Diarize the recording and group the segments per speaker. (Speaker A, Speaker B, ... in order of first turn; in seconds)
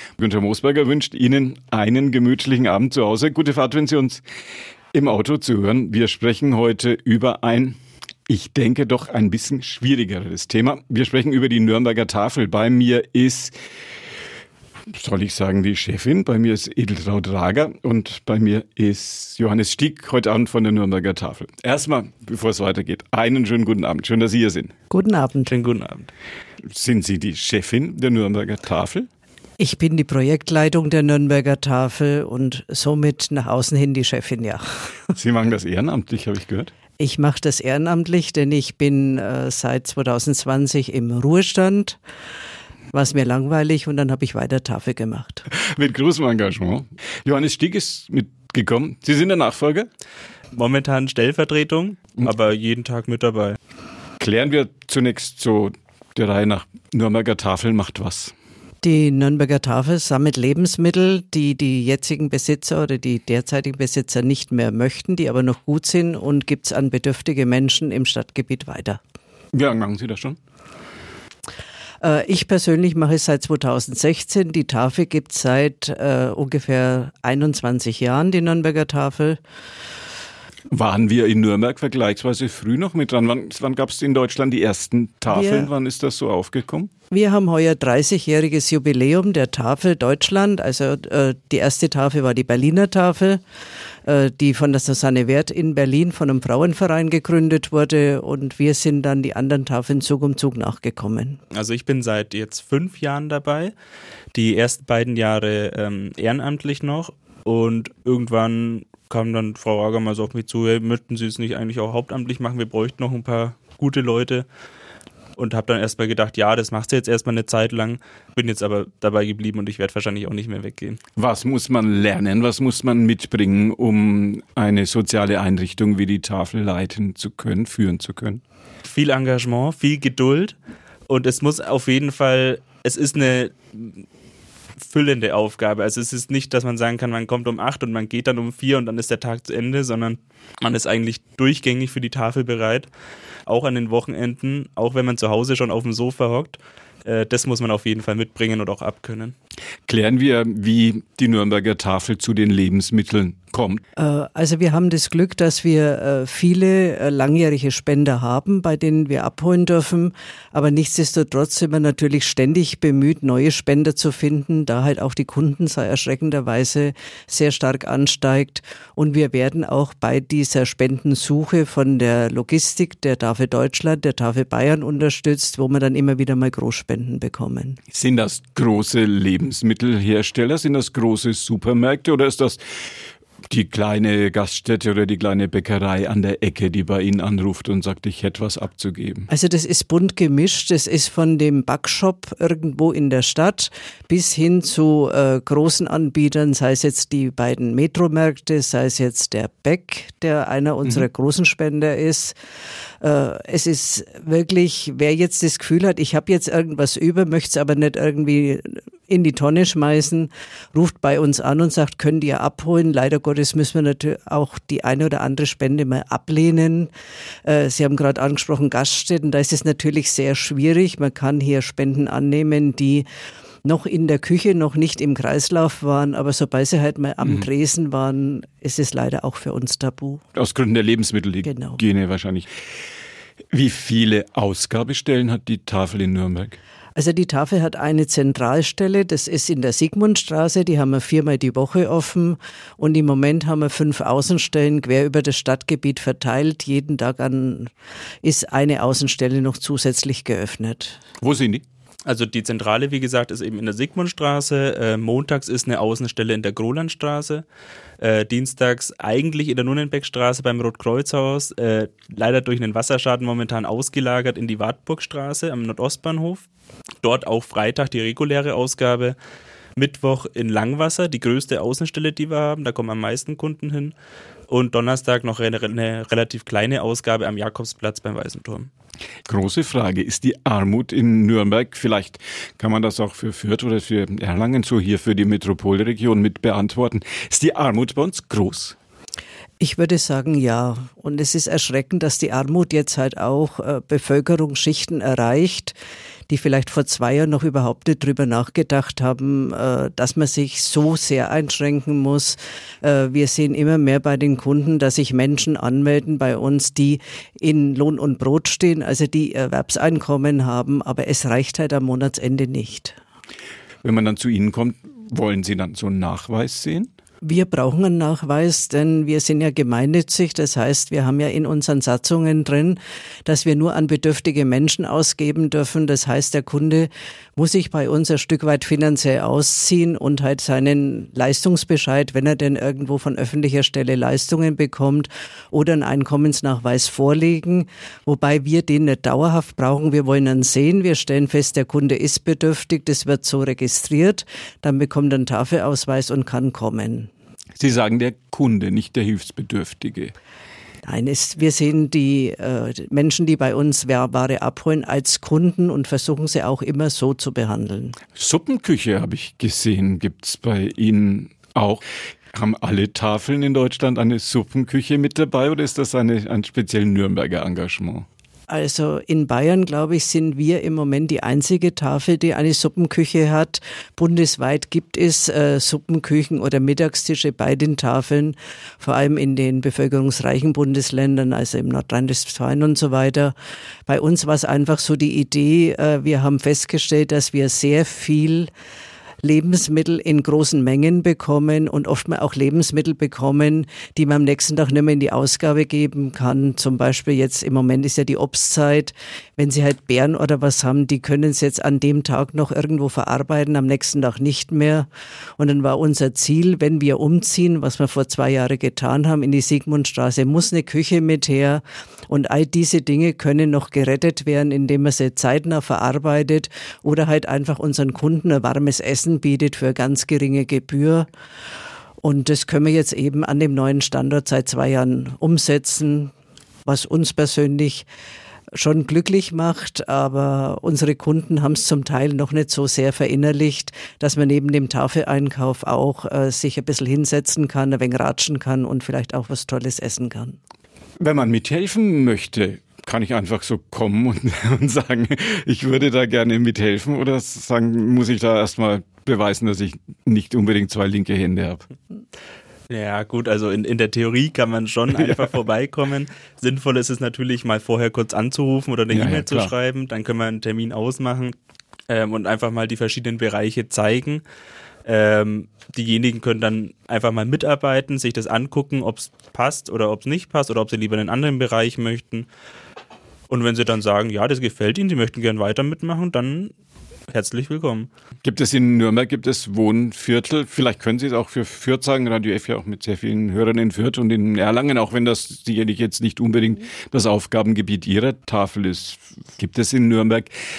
Speaker A: 0.2-4.2, 4.9-7.8, 8.3-13.6, 14.9-24.7, 26.6-29.1, 35.1-36.7, 45.5-49.9, 54.2-58.3, 69.5-70.4, 80.7-86.9, 121.2-128.4, 149.9-153.8, 177.9-182.6, 183.5-189.3, 230.3-232.5, 233.5-236.6, 251.2-251.6, 279.2-288.8, 313.8-316.9, 347.6-350.1, 358.1-368.1, 441.0-451.6, 458.9-459.5, 478.2-490.3
Speaker B: 24.9-25.5, 29.6-35.1, 37.0-42.0, 42.9-45.5, 58.8-69.0, 72.0-79.4, 85.3-85.7, 87.1-93.4, 94.0-101.4, 154.0-177.8, 189.3-202.3, 203.0-216.9, 217.4-223.1, 223.6-230.2, 231.4-231.8, 236.9-247.7, 248.2-251.0, 289.6-295.7, 296.3-313.0, 317.2-347.1, 350.8-357.9, 368.5-383.3, 383.9-388.5, 389.2-404.9, 405.4-421.1, 422.0-426.1, 426.6-427.9, 428.5-440.4
Speaker C: 25.5-26.1, 50.5-53.6, 101.5-103.7, 104.3-114.5, 115.4-121.0, 128.8-130.6, 131.1-134.0, 134.8-142.9, 143.5-149.3, 252.1-257.4, 258.0-266.4, 267.0-269.1, 269.8-273.9, 274.5-278.7, 452.7-461.3, 461.9-464.2, 464.9-472.3, 473.3-476.5, 477.1-477.9